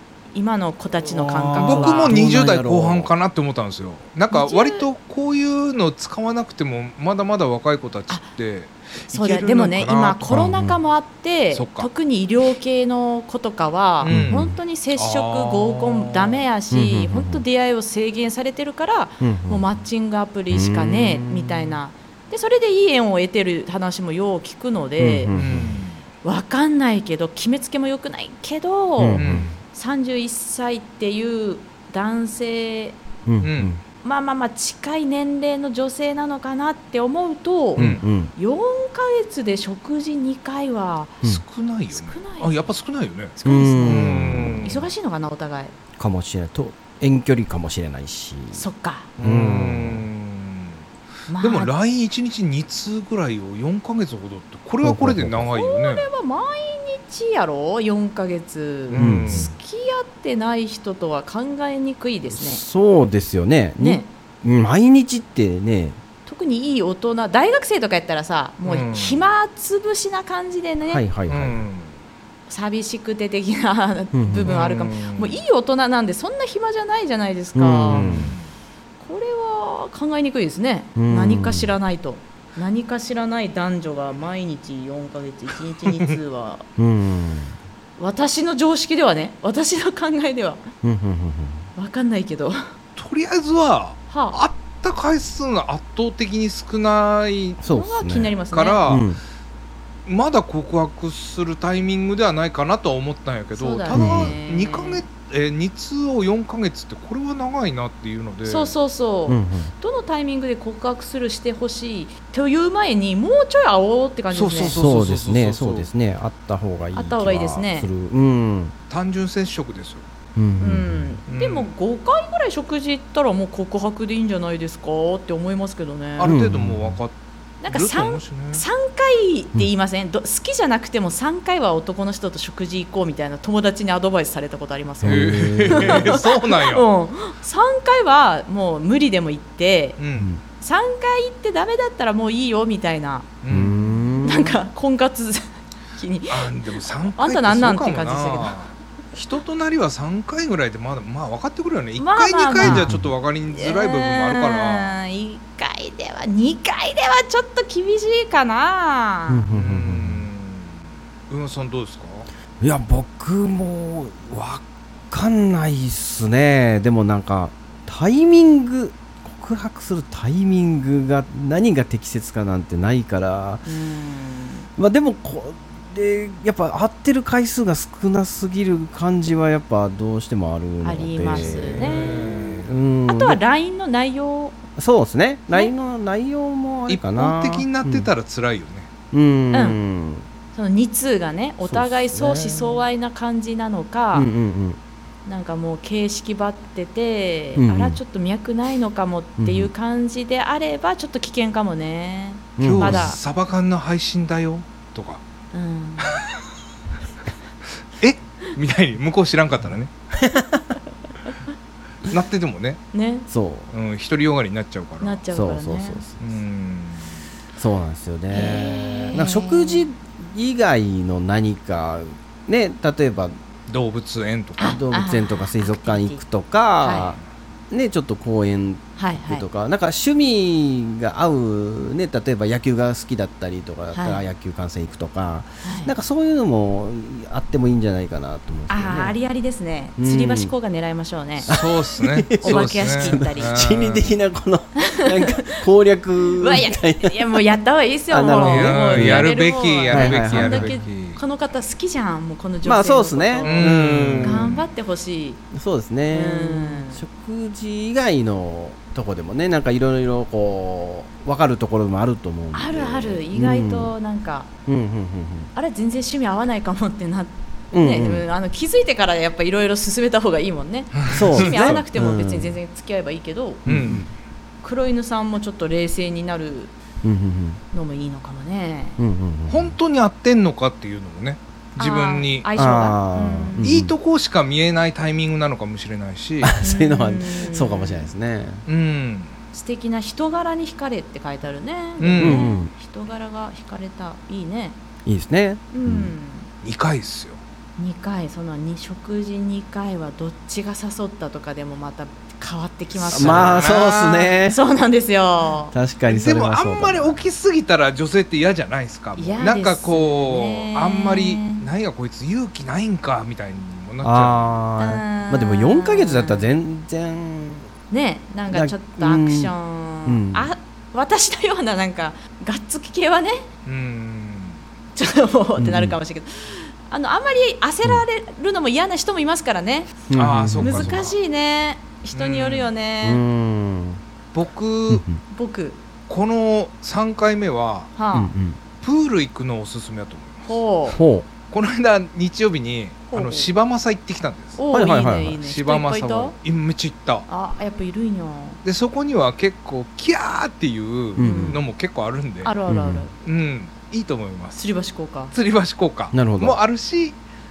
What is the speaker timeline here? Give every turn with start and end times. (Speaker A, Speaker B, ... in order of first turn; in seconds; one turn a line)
Speaker A: 0.3-2.1
Speaker B: 1.1-10.5
Speaker C: 1.6-3.1
Speaker A: 4.3-4.9
Speaker A: 9.1-25.4
Speaker C: 10.3-10.8
Speaker B: 11.5-11.9
Speaker B: 14.0-16.4
Speaker C: 14.1-14.6
Speaker C: 16.7-17.4
Speaker C: 19.2-19.6
Speaker C: 20.5-21.8
Speaker C: 25.0-25.8
Speaker B: 25.3-26.0
Speaker A: 26.2-33.0
Speaker C: 29.0-29.5
Speaker B: 29.1-29.5
Speaker C: 33.2-33.8
Speaker B: 33.4-33.7
Speaker A: 34.0-41.2
Speaker B: 37.8-38.0
Speaker C: 37.8-38.3
Speaker B: 41.2-44.8
Speaker A: 41.9-42.6
Speaker A: 43.4-45.7
Speaker C: 43.5-44.8
Speaker C: 46.0-48.6
Speaker A: 48.5-49.1
Speaker B: 49.2-50.7
Speaker C: 49.2-50.0
Speaker A: 51.3-51.7
Speaker B: 51.4-56.1
Speaker C: 54.8-55.5
Speaker A: 55.5-62.6
Speaker B: 58.9-59.5
Speaker C: 59.0-59.5
Speaker C: 62.3-66.0
Speaker A: 63.8-64.1
Speaker A: 66.2-71.0
Speaker B: 68.6-69.3
Speaker C: 70.9-71.6
Speaker B: 71.3-71.9
Speaker A: 72.5-78.3
Speaker C: 74.1-74.5
Speaker B: 74.4-75.4
Speaker C: 77.5-78.3
Speaker B: 77.9-78.5
Speaker A: 79.0-86.7
Speaker C: 81.0-81.7
Speaker B: 85.9-86.1
Speaker C: 86.8-87.5
Speaker A: 88.0-90.6
Speaker C: 90.8-91.7
Speaker A: 91.8-92.7
Speaker B: 93.0-97.6
Speaker A: 94.1-94.4
Speaker C: 97.6-98.3
Speaker A: 97.7-98.8
Speaker B: 98.5-99.1
Speaker C: 98.9-99.2
Speaker B: 100.0-108.7
Speaker A: 103.5-105.0
Speaker C: 103.9-104.4
Speaker A: 108.4-114.8
Speaker C: 109.3-109.7
Speaker B: 114.3-115.9
Speaker C: 114.7-118.7
Speaker A: 116.9-117.9
Speaker B: 118.9-120.0
Speaker C: 120.3-121.2
Speaker A: 120.6-126.4
Speaker B: 121.3-121.7
Speaker B: 126.2-127.1
Speaker C: 126.2-127.0
Speaker A: 127.6-140.0
Speaker B: 127.7-128.6
Speaker C: 135.0-136.2
Speaker B: 135.0-136.8
Speaker B: 140.0-140.3
Speaker C: 140.2-140.4
Speaker A: 140.6-143.3
Speaker B: 143.4-144.1
Speaker C: 143.5-144.6
Speaker A: 144.2-146.5
Speaker B: 146.3-154.9
Speaker A: 147.1-148.6
Speaker A: 152.0-152.9
Speaker C: 152.6-153.1
Speaker A: 153.5-159.5
Speaker C: 159.3-160.3
Speaker B: 159.5-160.8
Speaker B: 161.3-162.3
Speaker C: 162.6-173.6
Speaker A: 173.7-174.7
Speaker C: 174.8-183.4
Speaker A: 180.8-182.3
Speaker B: 181.4-182.7
Speaker A: 183.1-184.6
Speaker C: 184.8-188.1
Speaker B: 186.9-188.9
Speaker C: 189.1-190.3
Speaker A: 189.5-189.8
Speaker A: 190.5-194.3
Speaker C: 191.6-192.8
Speaker C: 194.1-194.8
Speaker A: 195.2-203.2
Speaker C: 197.6-198.0
Speaker C: 199.4-199.7
Speaker C: 202.6-203.1
Speaker B: 202.6-205.2
Speaker A: 205.5-206.2
Speaker B: 208.0-209.9
Speaker C: 210.2-210.6
Speaker B: 212.0-212.8
Speaker A: 212.9-213.3
Speaker C: 213.3-213.7
Speaker B: 213.7-215.2
Speaker A: 215.0-216.0
Speaker C: 215.3-216.2
Speaker B: 216.2-217.2
Speaker C: 217.6-223.3
Speaker A: 218.3-219.9
Speaker B: 223.7-224.7
Speaker A: 224.6-226.2
Speaker C: 224.6-227.2
Speaker A: 226.8-227.2
Speaker C: 227.7-239.1
Speaker A: 229.0-229.4
Speaker A: 233.9-234.2
Speaker A: 235.6-235.9
Speaker A: 238.7-241.6
Speaker C: 240.0-240.5
Speaker B: 241.4-244.1
Speaker C: 241.5-247.2
Speaker A: 242.4-243.6
Speaker A: 244.8-245.6
Speaker A: 246.3-255.4
Speaker C: 248.1-249.3
Speaker B: 248.4-251.2
Speaker C: 249.9-250.8
Speaker C: 252.6-254.6
Speaker B: 253.4-254.6
Speaker C: 255.5-263.9
Speaker A: 256.1-257.0
Speaker A: 262.5-264.5
Speaker C: 264.7-265.5
Speaker A: 265.5-273.6
Speaker C: 267.7-268.2
Speaker B: 270.9-271.8
Speaker C: 271.1-272.6
Speaker B: 273.6-274.0
Speaker C: 273.6-274.1
Speaker A: 274.6-276.7
Speaker C: 277.0-277.6
Speaker A: 277.7-279.0
Speaker C: 279.0-279.8
Speaker B: 279.5-282.5
Speaker A: 281.8-283.7
Speaker C: 282.6-283.9
Speaker B: 283.6-286.5
Speaker C: 286.4-288.6
Speaker A: 286.6-288.1
Speaker B: 288.7-289.3
Speaker A: 289.5-294.8
Speaker B: 292.0-292.5
Speaker C: 292.2-292.7
Speaker C: 295.0-296.1
Speaker A: 295.7-296.5
Speaker B: 296.6-297.4
Speaker A: 297.8-305.7
Speaker B: 303.0-304.3
Speaker C: 303.1-304.6
Speaker C: 305.7-307.2
Speaker B: 306.1-314.5
Speaker A: 309.1-311.7
Speaker C: 314.0-317.7
Speaker A: 314.8-316.5
Speaker A: 317.9-323.5
Speaker C: 318.5-319.5
Speaker C: 320.0-320.5
Speaker B: 323.6-324.6
Speaker A: 324.9-330.0
Speaker C: 325.6-326.0
Speaker C: 330.1-331.0
Speaker B: 330.1-331.1
Speaker A: 330.6-333.2
Speaker B: 332.1-332.7
Speaker C: 333.0-334.0
Speaker B: 334.3-335.1
Speaker C: 334.9-335.2
Speaker A: 335.3-335.8
Speaker B: 336.1-337.9
Speaker A: 337.9-338.3
Speaker C: 338.1-338.6
Speaker B: 338.8-340.6
Speaker A: 340.5-341.0
Speaker C: 340.9-341.3
Speaker B: 341.5-344.6
Speaker A: 343.1-343.5
Speaker A: 344.6-346.3
Speaker C: 344.7-345.4
Speaker B: 345.4-347.3
Speaker A: 347.3-348.6
Speaker B: 348.6-352.5
Speaker C: 351.1-351.6
Speaker A: 351.2-351.6
Speaker A: 352.4-353.1
Speaker C: 352.7-353.1
Speaker B: 353.2-354.6
Speaker A: 354.5-355.3
Speaker B: 355.3-357.2
Speaker C: 356.1-356.6